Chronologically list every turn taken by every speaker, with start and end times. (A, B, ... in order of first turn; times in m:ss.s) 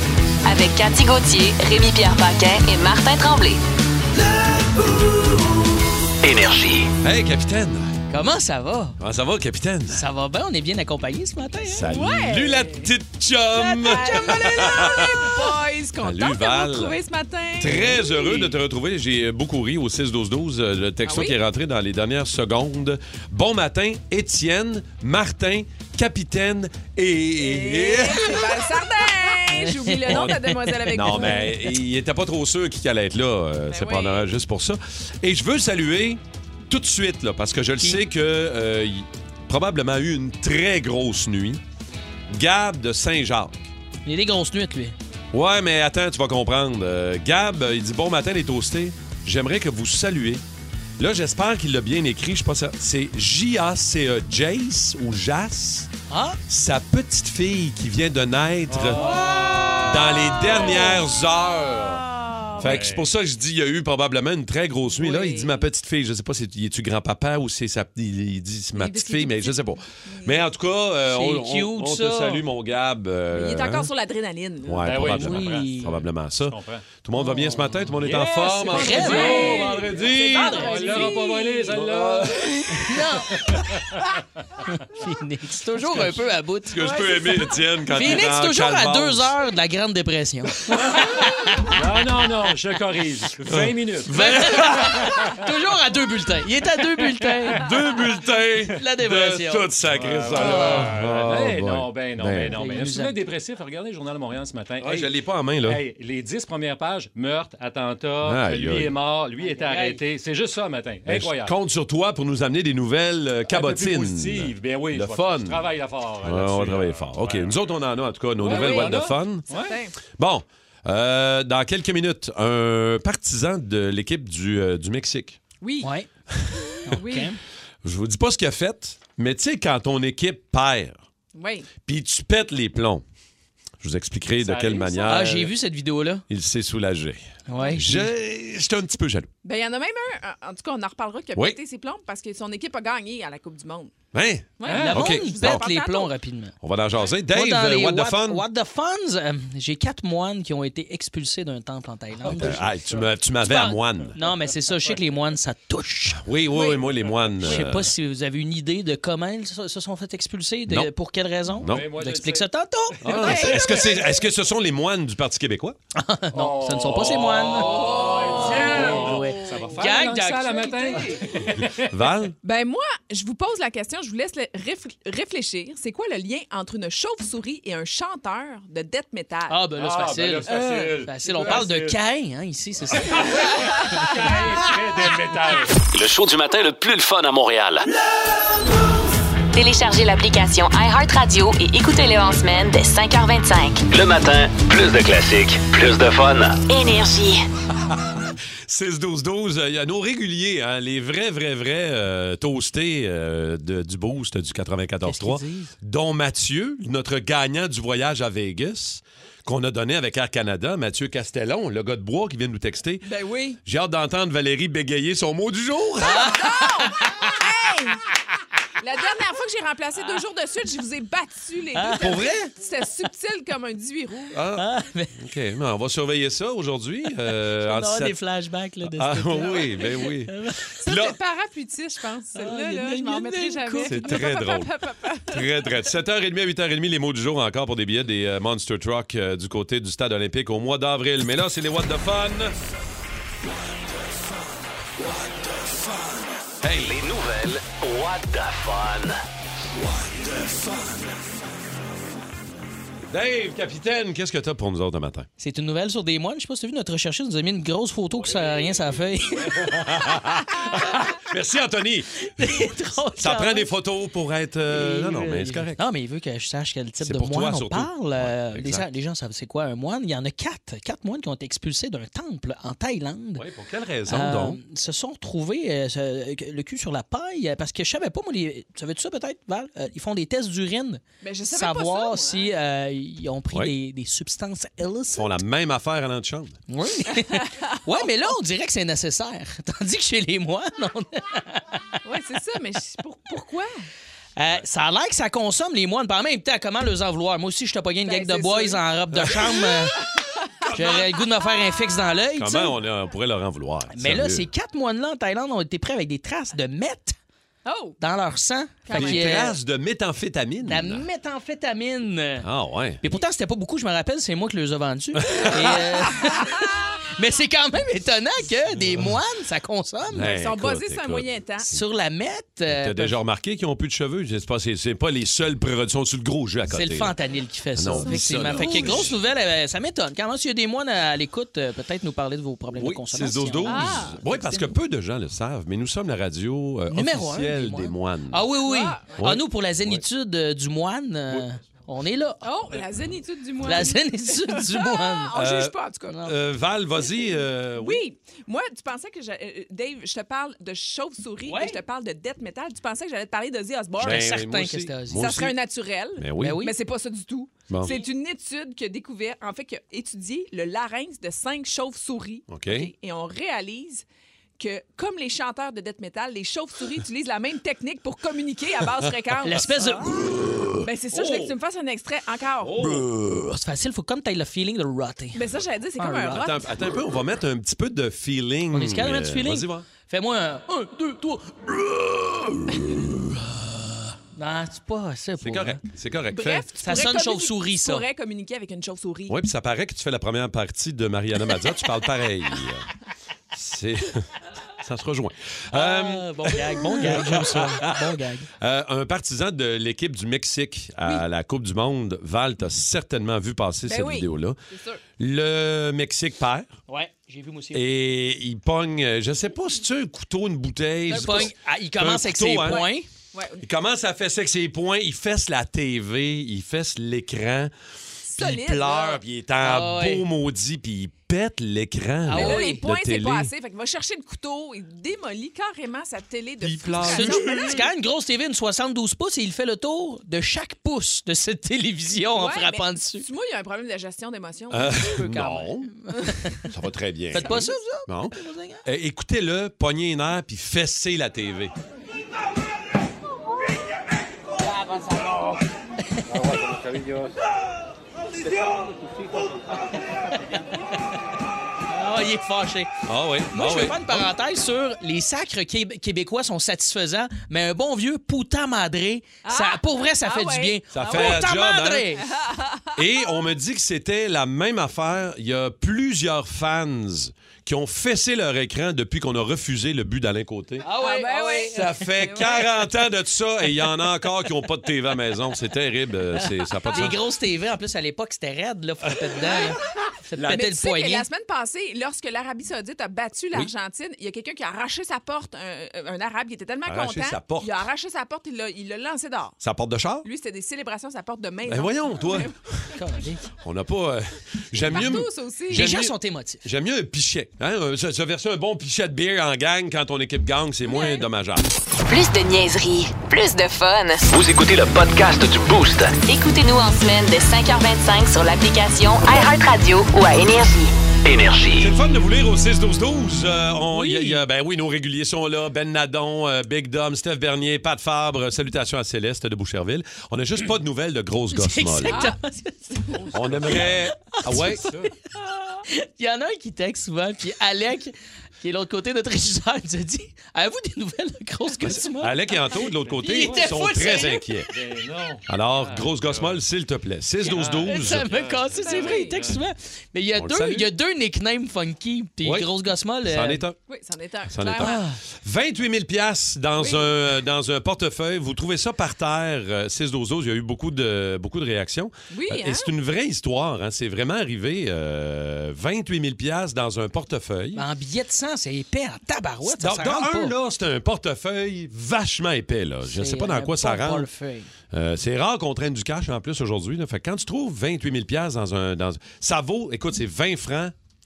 0:00.4-0:03.6 A
0:06.2-0:06.9 B
0:07.0-0:07.9 C
0:08.1-0:09.0 D
0:09.0-0:10.0 C
0:09.9-0:11.9 D
0:11.7-0:15.3 C
0:11.9-0:12.9 E
0:13.6-0:18.5 E
0:13.6-0:15.4 D
0:16.0-0:17.0 C
0:17.6-0:28.4 C
0:21.0-0:21.4 E
0:27.4-0:31.6 E
0:29.5-0:31.7 D
0:30.1-0:30.4 C
0:30.9-0:41.6 C
0:33.7-0:34.3 E
0:42.3-0:43.7 C
0:44.0-0:45.0 D
0:45.3-0:50.4 C
0:51.0-0:55.9 C
0:56.1-0:56.4 D
0:56.5-1:02.0 C
0:58.7-1:00.8 F
1:02.6-1:13.9 C
1:02.6-1:03.1 F
1:04.9-1:05.6 E
1:08.7-1:10.4 E
1:11.0-1:12.4 D
1:13.3-1:15.0 E
1:14.6-1:21.2 C
1:14.8-1:15.8 F
1:14.9-1:16.0 D
1:16.4-1:16.8 F
1:17.2-1:17.9 D
1:18.0-1:22.5 F
1:18.7-1:21.1 D
1:19.3-1:21.7 E
1:21.7-1:23.4 C
1:22.8-1:23.6 D
1:23.7-1:24.0 F
1:24.6-1:31.7 D
1:26.7-1:29.3 C
1:31.7-1:35.1 F
1:33.4-1:35.0 C
1:34.1-1:37.8 D
1:37.6-1:42.6 C
1:38.7-1:39.7 D
1:39.9-1:45.1 F
1:40.4-1:40.9 D
1:42.5-1:43.2 D
1:44.8-1:45.8 C
1:45.6-1:51.6 F
1:48.2-1:49.0 C
1:49.4-1:50.0 D
1:51.0-1:55.6 C
1:53.5-1:57.6 F
1:56.2-1:59.5 C
1:58.4-1:59.8 F
1:58.5-1:58.9 E
1:59.7-2:00.0 E
2:00.0-2:05.4 C
2:05.6-2:05.9 E
2:05.8-2:06.1 D
2:06.3-2:06.6 C
2:06.8-2:07.4 D
2:06.9-2:07.3 E
2:07.8-2:11.0 C
2:11.3-2:11.7 E
2:11.8-2:13.0 C
2:13.8-2:15.6 C
2:14.4-2:15.1 F
2:15.1-2:16.2 D
2:16.3-2:19.3 C
2:17.5-2:18.1 D
2:19.4-2:24.0 E
2:24.1-2:25.7 C
2:24.6-2:26.1 E
2:24.6-2:25.0 F
2:24.7-2:26.6 D
2:26.6-2:28.4 C
2:27.3-2:32.7 D
2:32.3-2:34.2 C
2:32.5-2:33.1 F
2:33.4-2:36.2 D
2:36.2-2:37.9 C
2:36.5-2:37.1 E
2:37.4-2:43.5 D
2:41.6-2:41.9 C
2:41.7-2:42.5 F
2:43.0-2:45.8 C
2:43.0-2:43.6 F
2:43.1-2:43.8 E
2:46.0-2:51.2 D
2:46.3-2:52.0 F
2:47.7-2:48.5 E
2:51.9-2:52.3 C
2:52.4-2:59.6 E
2:59.5-3:03.2 D
2:59.8-3:02.0 F
3:00.5-3:00.9 E
3:02.9-3:05.7 F
3:05.9-3:07.9 B
3:09.5-3:13.8 A
3:13.9-3:16.6 B
3:16.7-3:17.5 A
3:17.8-3:33.1 C
3:25.0-3:25.7 D
3:33.0-3:33.6 E
3:33.6-3:36.4 C
3:36.0-3:37.1 D
3:36.0-3:38.0 E
3:38.8-3:44.3 E
3:41.8-3:42.1 D
3:42.0-3:42.5 C
3:44.3-3:48.2 C
3:44.5-3:45.2 D
3:47.6-3:50.6 D
3:48.8-3:51.2 C
3:50.8-3:55.6 E
3:52.4-3:54.1 D
3:53.8-4:02.5 C
4:05.4-4:05.7 C
4:06.6-4:09.2 B
4:09.8-4:11.1 C
4:13.1-4:15.3 C
4:15.4-4:20.4 D
4:19.4-4:25.8 C
4:22.3-4:23.7 D
4:24.7-4:33.4 D
4:27.0-4:28.9 C
4:33.4-4:34.6 C
4:34.1-4:45.4 D
4:41.2-4:42.5 E
4:45.1-4:46.6 C
4:46.7-4:51.8 D
4:47.3-4:48.1 E
4:52.0-4:53.9 E
4:54.4-5:00.0 D
4:58.1-4:58.8 E
4:59.2-4:59.4 C
5:00.0-5:01.1 E
5:00.7-5:02.8 D
5:02.3-5:04.5 C
5:03.9-5:07.1 D
5:07.6-5:08.0 E
5:08.0-5:09.5 D
5:08.8-5:09.5 E
5:08.9-5:11.1 C
5:10.6-5:12.5 D
5:12.4-5:13.0 C
5:13.0-5:20.3 D
5:15.1-5:16.3 C
5:20.1-5:21.2 C
5:20.2-5:21.7 E
5:21.7-5:23.2 D
5:22.6-5:27.1 C
5:26.7-5:34.7 D
5:27.8-5:29.2 C
5:28.0-5:29.1 E
5:32.7-5:38.5 C
5:33.6-5:34.2 E
5:36.9-5:42.8 D
5:38.6-5:39.2 E
5:39.1-5:40.0 C
5:42.4-5:46.1 E
5:43.6-5:45.4 D
5:45.3-5:48.0 C
5:46.1-5:46.3 D
5:47.8-5:54.4 E
5:51.4-5:51.8 D
5:54.0-5:55.5 C
5:54.0-5:55.3 D
5:55.2-6:04.0 E
5:56.2-5:56.6 C
5:56.4-5:56.7 D
5:57.7-5:58.0 C
6:02.5-6:02.9 C
6:04.6-6:10.0 E
6:09.4-6:10.5 D
6:10.8-6:12.7 E
6:11.1-6:11.5 C
6:12.6-6:13.1 C
6:12.8-6:15.4 D
6:15.3-6:16.7 E
6:16.0-6:16.5 D
6:16.3-6:19.9 C
6:18.7-6:25.8 D
6:25.4-6:26.7 C
6:26.3-6:29.4 E
6:26.8-6:28.0 D
6:29.3-6:32.9 C
6:33.5-6:34.2 C
6:34.8-6:44.6 C
6:35.7-6:38.5 D
6:43.9-6:45.0 E
6:45.2-6:46.7 C
6:46.9-6:47.8 D
6:47.7-6:52.9 C
6:51.1-6:53.1 D
6:53.3-6:53.6 E
6:53.6-6:57.7 C
6:58.2-6:59.2 E
6:58.4-7:03.5 C
6:59.6-7:00.3 D
7:02.2-7:02.8 D
7:02.3-7:07.8 E
7:06.6-7:07.9 C
7:07.0-7:13.2 D
7:12.3-7:15.2 E
7:14.7-7:15.9 C
7:15.1-7:16.7 D
7:16.7-7:21.7 C
7:17.3-7:18.8 D
7:26.1-7:26.6 D
7:31.9-7:32.9 D
7:33.1-7:34.3 C
7:33.5-7:42.2 D
7:39.4-7:41.5 E
7:40.9-7:42.2 C
7:42.2-7:43.3 E
7:43.0-7:50.9 C
7:50.8-7:52.5 D
7:50.9-7:52.8 E
7:51.7-7:57.2 C
7:56.4-8:01.2 D
8:00.4-8:00.6 C
8:00.5-8:09.6 E
8:06.8-8:07.9 C
8:09.6-8:10.2 C
8:10.2-8:12.5 E
8:11.6-8:12.9 C
8:13.0-8:13.4 D
8:13.6-8:21.7 C
8:14.9-8:15.8 E
8:15.7-8:16.6 D
8:20.8-8:21.2 E
8:22.1-8:24.3 A
8:24.3-8:26.2 B
8:26.2-8:30.9 A
8:31.2-8:31.9 B
8:31.8-8:42.3 C
8:33.9-8:34.4 D
8:41.5-8:54.6 D
8:42.1-8:42.4 E
8:43.1-8:45.1 F
8:43.3-8:44.8 C
8:51.8-8:54.7 C
8:53.0-8:54.1 F
8:54.7-8:56.6 F
8:55.5-8:58.3 C
8:57.4-8:59.6 F
8:57.4-9:03.6 D
8:58.8-8:59.4 E
9:00.3-9:00.9 C
9:02.4-9:02.7 C
9:03.2-9:03.8 C
9:03.9-9:05.0 E
9:04.5-9:17.8 C
9:04.8-9:05.2 D
9:06.8-9:07.1 E
9:12.3-9:12.9 E
9:17.7-9:20.5 D
9:19.6-9:24.3 C
9:23.0-9:24.7 D
9:24.9-9:30.9 C